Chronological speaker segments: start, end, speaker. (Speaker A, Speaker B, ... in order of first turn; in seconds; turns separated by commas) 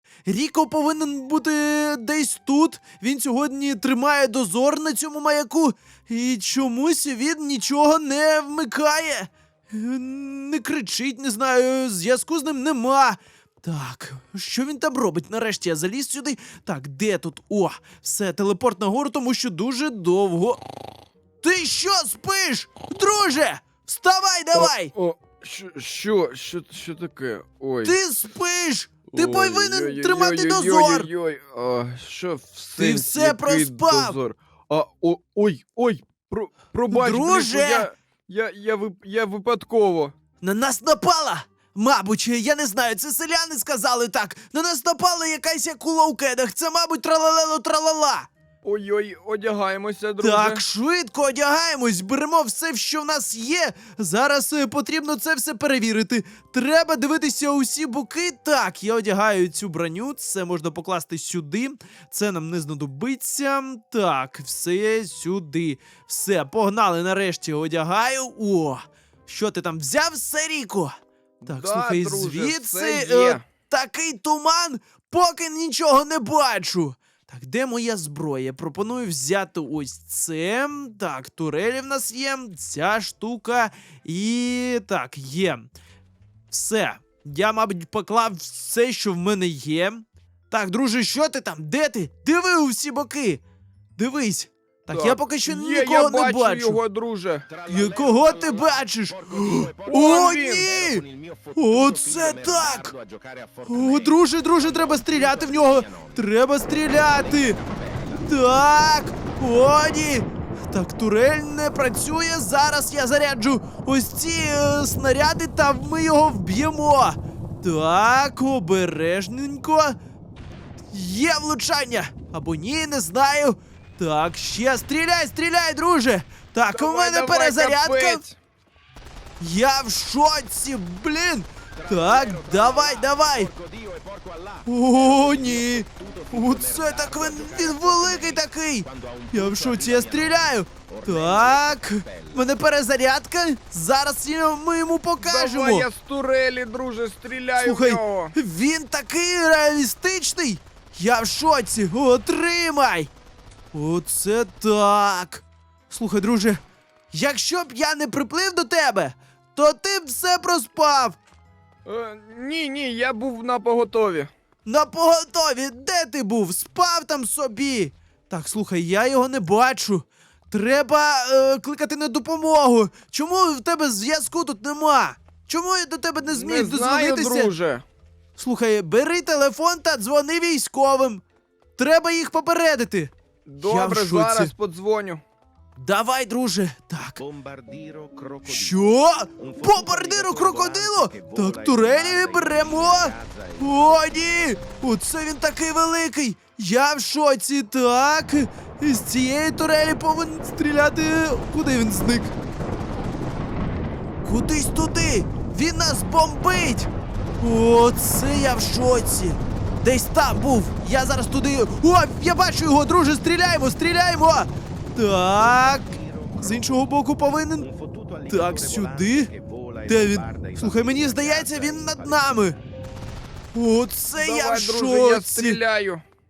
Speaker A: 0.2-20.6, Speaker A: 21.4-24.9, Speaker B: 24.5-27.9, Speaker A: 27.8-31.1, Speaker B: 29.1-40.1, Speaker A: 32.8-34.2, Speaker A: 36.9-37.9, Speaker A: 40.4-48.3, Speaker B: 48.6-50.6, Speaker A: 50.2-70.9, Speaker B: 71.4-73.4, Speaker A: 71.5-85.7, Speaker A: 86.5-93.4, Speaker A: 94.0-96.8, Speaker B: 94.9-97.5, Speaker C: 97.5-106.2, Speaker A: 97.7-101.0, Speaker B: 99.8-100.7, Speaker A: 101.5-102.9, Speaker A: 103.7-107.6, Speaker C: 107.1-108.2, Speaker A: 108.1-120.0, Speaker A: 120.9-128.2, Speaker B: 126.7-128.4, Speaker A: 129.4-133.5, Speaker C: 131.8-140.3, Speaker A: 134.7-145.9, Speaker C: 140.9-142.4, Speaker B: 145.2-148.3, Speaker A: 147.6-153.1, Speaker A: 153.7-161.2, Speaker B: 161.8-164.3, Speaker A: 164.7-177.5, Speaker B: 176.3-177.8, Speaker A: 178.4-181.2, Speaker A: 181.8-184.5, Speaker B: 183.4-185.2, Speaker A: 185.8-187.2, Speaker C: 187.2-188.8, Speaker A: 188.4-202.3, Speaker C: 189.4-193.9, Speaker A: 204.2-217.7, Speaker C: 215.9-216.6, Speaker C: 217.7-222.2, Speaker A: 218.3-219.3, Speaker A: 219.9-222.6, Speaker A: 223.5-225.6, Speaker B: 224.1-226.0